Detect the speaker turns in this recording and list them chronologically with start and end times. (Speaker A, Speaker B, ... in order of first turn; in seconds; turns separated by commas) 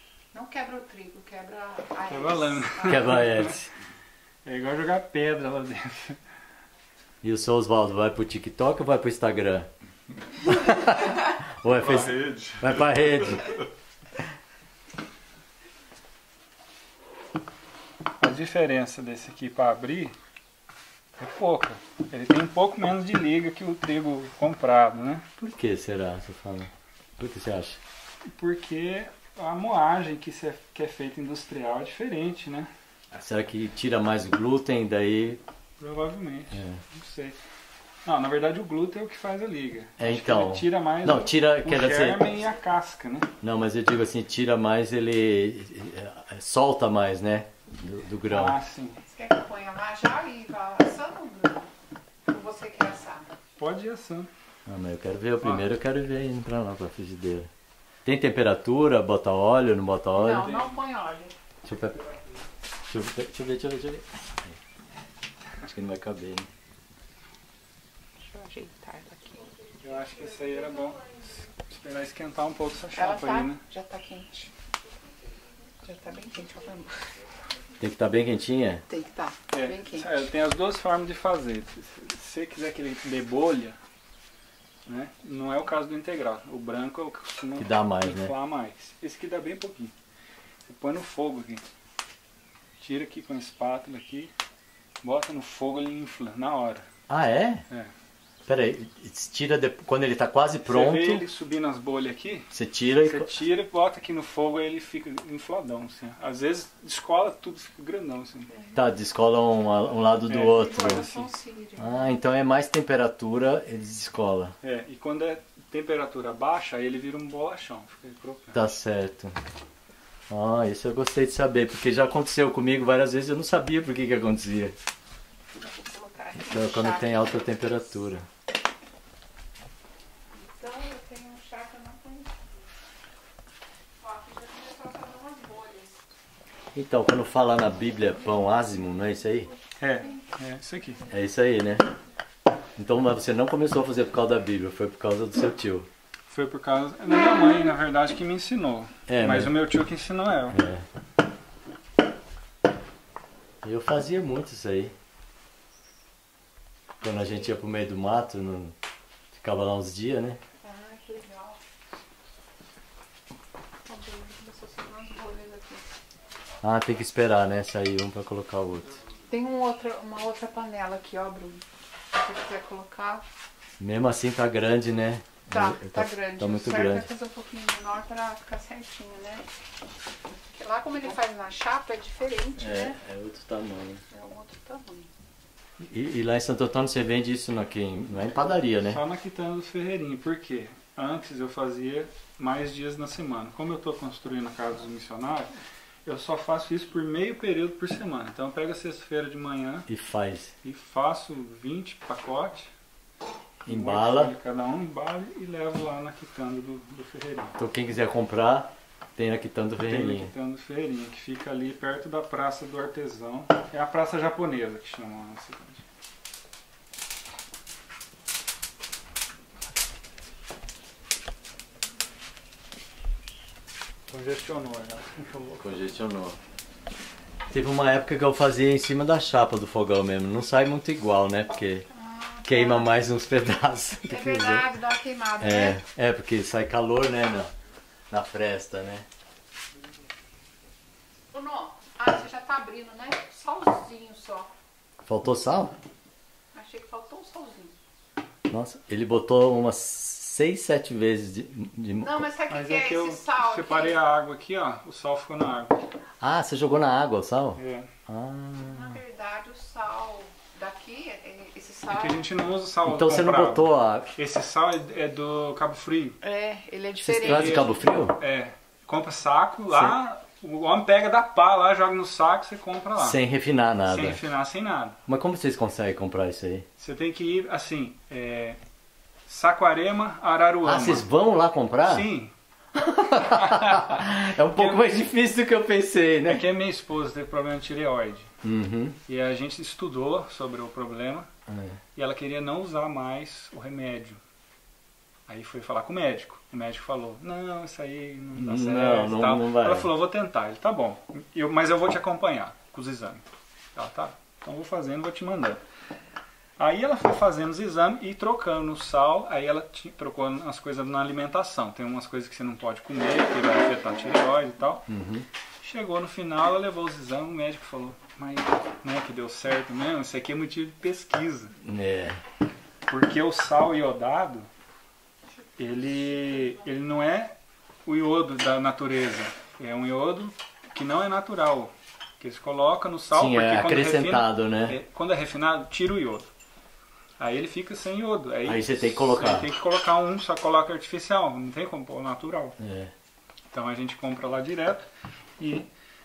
Speaker A: 0.3-3.2, Speaker B: 2.1-3.6, Speaker C: 2.9-3.7, Speaker B: 4.5-6.2, Speaker C: 7.2-9.7, Speaker C: 10.4-13.6, Speaker B: 18.2-20.1, Speaker B: 21.2-25.3, Speaker C: 25.4-27.8, Speaker B: 28.3-32.7, Speaker C: 33.1-35.4, Speaker B: 35.8-37.4, Speaker C: 36.5-36.8, Speaker B: 38.0-43.3, Speaker C: 40.0-42.4, Speaker C: 43.4-48.6, Speaker B: 48.3-49.0, Speaker A: 49.1-51.7, Speaker A: 52.3-53.3, Speaker B: 53.6-54.3, Speaker C: 54.7-57.5, Speaker C: 58.0-60.5, Speaker A: 60.2-61.4, Speaker B: 60.4-60.8, Speaker C: 61.6-62.0, Speaker C: 62.9-64.6, Speaker C: 65.6-66.5, Speaker A: 68.3-69.5, Speaker B: 69.8-73.6, Speaker A: 73.0-74.5, Speaker A: 75.8-77.1, Speaker C: 77.8-78.8, Speaker A: 78.9-80.2, Speaker B: 79.5-83.8, Speaker B: 84.9-89.9, Speaker C: 87.6-88.3, Speaker B: 90.7-91.6, Speaker B: 92.8-94.3, Speaker B: 95.0-96.9, Speaker C: 97.1-97.6, Speaker C: 98.5-101.2, Speaker B: 100.7-102.5, Speaker C: 102.5-103.3, Speaker B: 103.0-108.5, Speaker C: 108.8-111.1, Speaker B: 110.3-111.3, Speaker A: 110.3-112.0, Speaker C: 111.8-114.5, Speaker B: 114.6-118.7, Speaker C: 118.5-119.4, Speaker C: 120.3-124.8, Speaker A: 125.6-127.3, Speaker C: 126.4-128.3, Speaker A: 130.4-132.4, Speaker A: 134.0-136.0, Speaker C: 136.7-139.5, Speaker B: 139.8-141.0, Speaker C: 141.1-141.9, Speaker C: 142.8-145.9, Speaker B: 146.3-150.6, Speaker C: 149.1-149.6, Speaker C: 150.5-150.9, Speaker C: 153.6-154.9, Speaker C: 157.0-158.8, Speaker C: 159.3-160.4, Speaker A: 160.6-161.6, Speaker A: 163.9-165.8, Speaker C: 166.6-169.0, Speaker A: 169.3-173.2, Speaker C: 173.8-177.1, Speaker A: 175.5-179.4, Speaker A: 180.5-183.0, Speaker C: 182.6-184.0, Speaker A: 184.1-185.1, Speaker C: 185.8-189.0, Speaker B: 188.8-195.5, Speaker B: 196.1-199.9, Speaker C: 199.9-200.5, Speaker B: 200.6-202.7, Speaker B: 203.6-207.6, Speaker C: 203.7-204.3, Speaker C: 207.6-210.3, Speaker B: 209.8-215.8, Speaker B: 224.1-225.6, Speaker C: 225.6-226.4, Speaker C: 227.5-231.9, Speaker A: 231.9-232.9, Speaker C: 232.4-234.7, Speaker A: 234.1-235.8, Speaker C: 235.4-237.5, Speaker C: 238.1-239.1, Speaker A: 241.3-244.5, Speaker C: 245.1-245.8, Speaker A: 246.5-247.7, Speaker C: 248.5-252.2, Speaker A: 252.0-254.0, Speaker B: 252.5-255.8, Speaker C: 256.2-259.0, Speaker B: 257.6-257.9, Speaker A: 258.7-262.2, Speaker B: 261.9-266.2, Speaker C: 262.9-264.1, Speaker A: 266.2-267.7, Speaker C: 267.0-268.2, Speaker B: 267.2-273.2, Speaker C: 269.7-269.9, Speaker C: 273.0-274.2, Speaker B: 273.9-275.0, Speaker C: 275.1-276.7, Speaker B: 276.8-278.6, Speaker B: 279.3-281.1, Speaker C: 280.6-282.1, Speaker B: 281.9-282.3, Speaker B: 282.9-284.9, Speaker C: 282.9-286.5, Speaker B: 286.3-288.3, Speaker C: 288.4-289.0, Speaker B: 289.1-291.3, Speaker C: 291.5-291.8, Speaker B: 292.0-294.2, Speaker B: 295.3-303.2, Speaker C: 298.4-299.9, Speaker B: 303.8-305.6, Speaker B: 306.6-314.9, Speaker C: 314.9-315.3, Speaker B: 315.6-321.6, Speaker C: 321.6-322.2, Speaker B: 322.9-324.5, Speaker B: 325.6-327.4, Speaker B: 327.9-336.3, Speaker C: 333.1-334.8, Speaker B: 337.2-342.6, Speaker C: 338.5-339.5, Speaker C: 342.6-342.9, Speaker B: 343.5-344.9, Speaker B: 345.4-345.7